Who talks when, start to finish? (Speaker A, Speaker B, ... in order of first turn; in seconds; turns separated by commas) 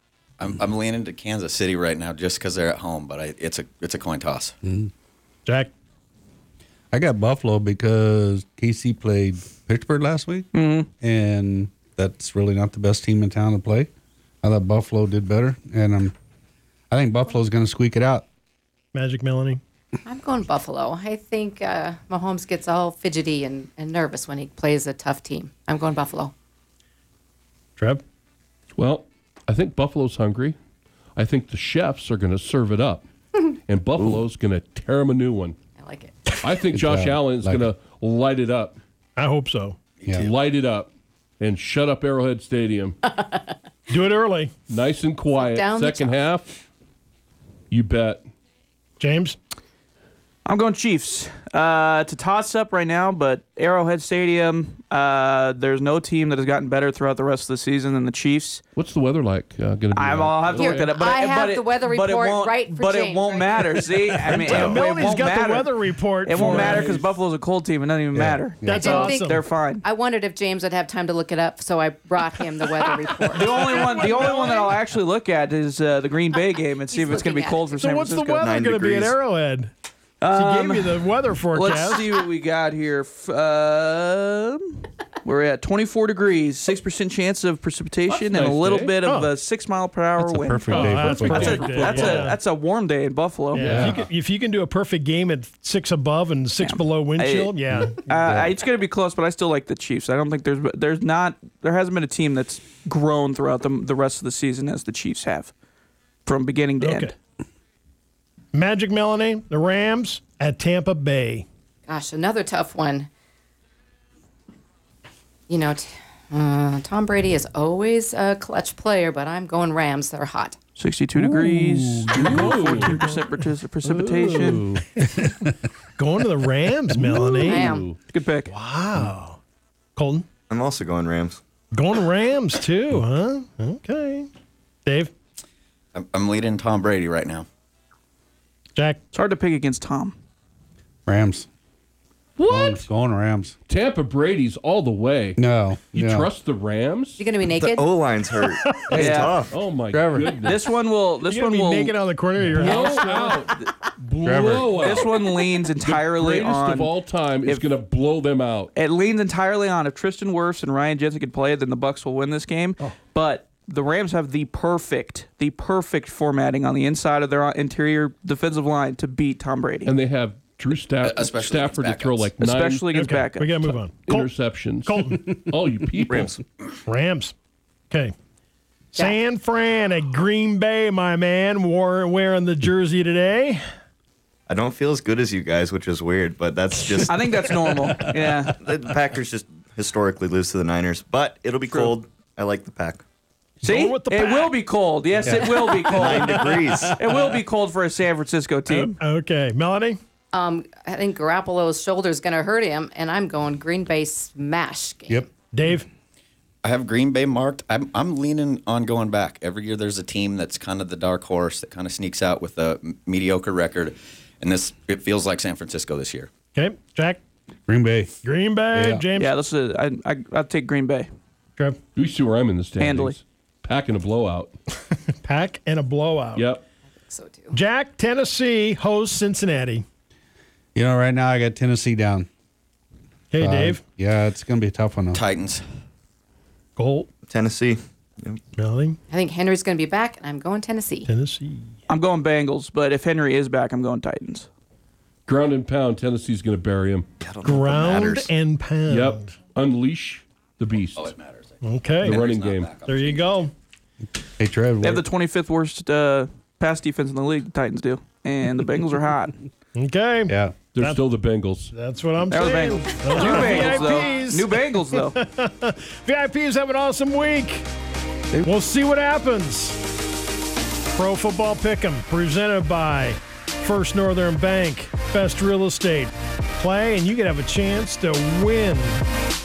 Speaker A: 0.4-4.5, Speaker B: 4.6-4.9, Speaker C: 5.5-5.7, Speaker B: 6.9-10.5, Speaker D: 10.5-10.9, Speaker B: 11.0-13.9, Speaker B: 14.4-16.1, Speaker B: 16.9-18.2, Speaker C: 18.9-19.6, Speaker E: 20.0-26.3, Speaker C: 27.8-28.0, Speaker F: 28.8-30.6, Speaker F: 31.1-33.0, Speaker F: 33.7-35.6, Speaker E: 35.8-36.4, Speaker F: 36.4-38.8, Speaker B: 36.7-37.7, Speaker C: 39.1-39.8, Speaker A: 40.0-40.3, Speaker F: 40.2-40.9, Speaker F: 41.4-43.0, Speaker E: 43.0-43.6, Speaker C: 43.9-44.5, Speaker F: 44.7-46.5, Speaker E: 45.3-46.3, Speaker F: 47.7-48.2, Speaker C: 49.0-49.4, Speaker D: 50.4-58.6, Speaker F: 58.8-60.9, Speaker D: 59.9-69.8, Speaker E: 60.5-64.5, Speaker C: 64.3-67.1, Speaker G: 64.5-64.7, Speaker A: 64.5-64.9, Speaker F: 66.4-67.0, Speaker B: 68.1-69.1, Speaker E: 68.6-74.5, Speaker C: 68.7-69.4, Speaker C: 73.1-74.8, Speaker D: 73.3-78.5, Speaker E: 76.9-77.8, Speaker C: 77.7-79.7, Speaker G: 78.4-79.2, Speaker D: 80.2-93.9, Speaker C: 80.3-82.1, Speaker F: 88.1-88.9, Speaker C: 89.0-89.3, Speaker B: 90.2-91.6, Speaker C: 90.5-92.3, Speaker F: 90.7-92.3, Speaker C: 93.5-98.1, Speaker F: 93.6-93.9, Speaker B: 93.6-94.0, Speaker D: 96.6-105.5, Speaker B: 97.7-98.5, Speaker D: 106.2-107.1, Speaker C: 106.8-107.1, Speaker C: 108.5-111.5, Speaker E: 111.9-113.1, Speaker E: 115.5-120.6, Speaker D: 120.8-124.6, Speaker C: 121.1-123.2, Speaker F: 122.1-123.1, Speaker F: 123.8-124.9, Speaker C: 125.0-127.7, Speaker F: 126.9-128.0, Speaker E: 127.4-127.9, Speaker D: 128.1-128.5, Speaker C: 128.5-129.4, Speaker C: 129.9-130.2, Speaker G: 130.5-131.4, Speaker C: 131.7-134.3, Speaker C: 134.8-135.1, Speaker A: 135.9-137.5, Speaker C: 138.7-139.0, Speaker D: 139.1-140.1, Speaker B: 141.1-141.5, Speaker F: 142.4-142.8, Speaker B: 142.5-143.5, Speaker F: 143.7-145.4, Speaker B: 145.4-146.3, Speaker F: 145.9-147.2, Speaker E: 147.2-147.9, Speaker G: 147.5-149.5, Speaker C: 148.6-149.1, Speaker B: 148.9-149.2, Speaker D: 148.9-149.4, Speaker F: 149.5-150.7, Speaker B: 149.9-150.4, Speaker D: 150.4-151.9, Speaker C: 151.2-153.4, Speaker F: 152.5-153.6, Speaker D: 152.5-153.7, Speaker C: 154.1-154.5, Speaker F: 154.2-155.2, Speaker B: 154.2-155.0, Speaker D: 154.8-156.9, Speaker F: 155.8-158.7, Speaker D: 157.4-157.7, Speaker D: 158.7-169.9, Speaker F: 169.8-173.3, Speaker A: 171.0-172.3, Speaker D: 172.4-173.7, Speaker C: 173.0-174.3, Speaker F: 174.1-176.3, Speaker C: 174.8-175.4, Speaker G: 176.1-176.4, Speaker C: 176.8-177.3, Speaker C: 178.9-183.6, Speaker G: 184.5-193.0, Speaker D: 187.1-188.6, Speaker C: 193.6-194.5, Speaker D: 193.6-198.9, Speaker E: 195.3-195.6, Speaker C: 195.6-196.7, Speaker G: 195.8-197.0, Speaker C: 198.7-200.0, Speaker E: 200.3-205.3, Speaker C: 205.5-205.9, Speaker A: 206.6-216.3, Speaker C: 216.5-217.2, Speaker B: 217.7-218.1, Speaker C: 218.2-219.3, Speaker B: 218.7-219.0, Speaker D: 219.2-221.1, Speaker F: 221.9-224.5, Speaker D: 222.8-223.2, Speaker C: 225.1-226.4, Speaker F: 226.3-226.6, Speaker E: 227.1-227.6, Speaker C: 227.5-229.8, Speaker B: 230.7-232.3, Speaker C: 233.3-233.8, Speaker B: 233.4-235.2, Speaker A: 235.1-235.6, Speaker C: 236.8-237.1, Speaker G: 237.3-238.4, Speaker C: 238.6-239.0, Speaker E: 239.1-241.1, Speaker C: 241.1-241.8, Speaker D: 241.9-244.5, Speaker F: 245.3-247.1, Speaker G: 247.2-248.3, Speaker C: 247.4-249.3, Speaker F: 248.9-251.1, Speaker A: 250.9-253.5, Speaker C: 251.6-252.2, Speaker F: 252.0-252.7, Speaker C: 252.8-253.5, Speaker B: 254.4-255.0, Speaker D: 254.8-259.3, Speaker C: 259.7-261.0, Speaker B: 260.3-260.5, Speaker F: 260.7-261.7, Speaker C: 261.7-267.7, Speaker D: 262.3-265.1, Speaker C: 268.4-269.8, Speaker C: 270.9-279.0